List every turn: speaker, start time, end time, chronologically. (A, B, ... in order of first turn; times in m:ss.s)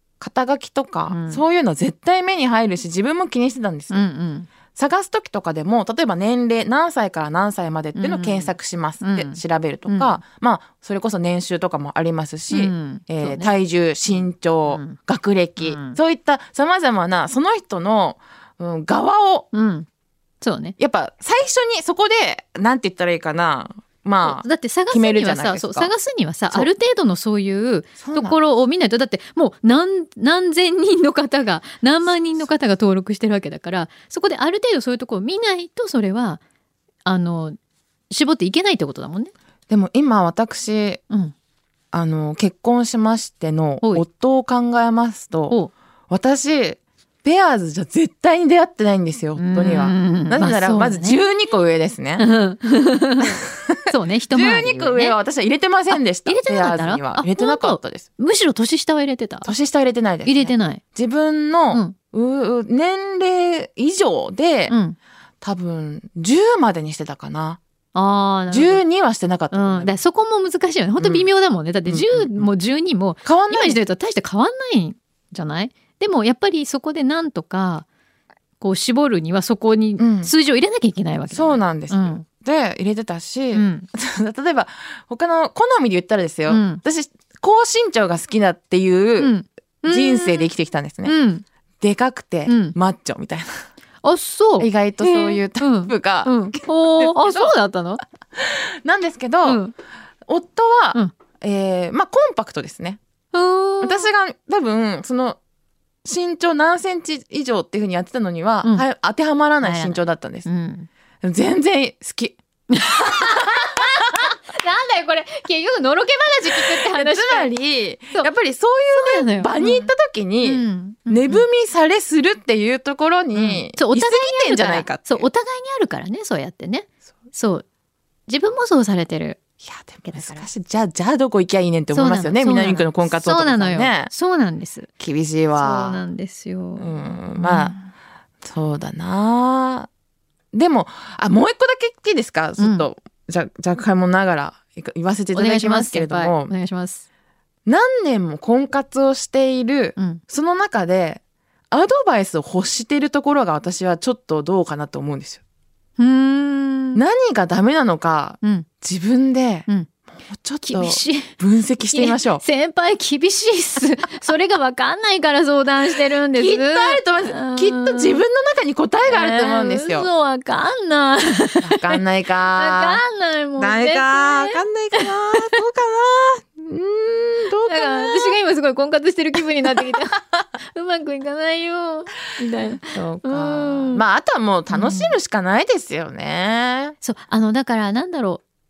0:00.2-0:04.1 A
0:01.1-0:01.4 B
0:03.9-0:04.5 B
0:04.7-0:19.5 A
0:08.0-0:10.2 B
0:12.5-0:13.5 B
0:14.7-0:15.0 B
0:15.6-0:16.0 B
0:19.5-0:19.9 B
0:20.4-0:20.8 B
0:20.8-0:25.9 A
0:24.2-0:36.4 B
0:28.0-0:28.4 A
0:32.0-0:32.4 A
0:37.0-0:37.6 B
0:38.1-0:39.3 B
0:39.7-0:41.0 A
0:41.9-0:45.6 A
0:46.1-0:52.2 A
0:49.4-0:51.2 B
0:52.2-0:55.2 B
0:53.4-0:58.0 A
0:55.9-0:59.5 B
0:59.4-1:04.7 A
1:00.2-1:00.8 B
1:04.7-1:05.0 B
1:05.4-1:07.6 A
1:07.9-1:08.8 B
1:08.5-1:09.9 A
1:09.5-1:17.8 B
1:11.0-1:11.3 A
1:11.9-1:12.5 A
1:13.2-1:13.8 A
1:18.6-1:22.2 B
1:20.0-1:20.3 A
1:21.3-1:29.3 A
1:23.5-1:23.9 B
1:26.5-1:26.8 B
1:29.2-1:30.5 B
1:29.8-1:31.1 A
1:31.0-1:31.4 B
1:31.8-1:33.6 A
1:32.4-1:32.8 B
1:34.0-1:38.0 B
1:34.6-1:37.5 A
1:38.4-1:39.6 A
1:39.4-1:39.7 B
1:40.3-1:43.0 A
1:43.3-1:44.1 B
1:43.8-1:45.4 A
1:46.0-1:50.4 A
1:49.6-1:50.9 B
1:51.2-1:54.2 A
1:52.7-1:57.5 B
1:56.5-2:05.3 A
1:58.9-1:59.9 B
2:00.4-2:01.4 B
2:03.3-2:07.6 B
2:08.3-2:09.4 B
2:09.6-2:14.1 A
2:10.0-2:10.5 B
2:11.9-2:14.9 B
2:15.0-2:16.0 A
2:15.5-2:17.9 B
2:16.8-2:17.7 A
2:18.4-2:19.9 A
2:20.5-2:26.5 A
2:22.6-2:22.9 B
2:25.3-2:27.0 B
2:27.6-2:35.4 A
2:30.0-2:30.2 B
2:36.0-2:37.0 B
2:36.9-2:42.4 A
2:38.4-2:38.7 B
2:40.6-2:41.3 B
2:41.9-2:48.2 B
2:46.3-2:50.1 A
2:49.1-2:52.0 B
2:51.6-2:53.0 A
2:52.5-2:55.6 B
2:53.6-2:58.3 A
2:57.6-3:04.0 B
3:02.8-3:07.0 A
3:04.7-3:05.2 B
3:07.0-3:08.4 B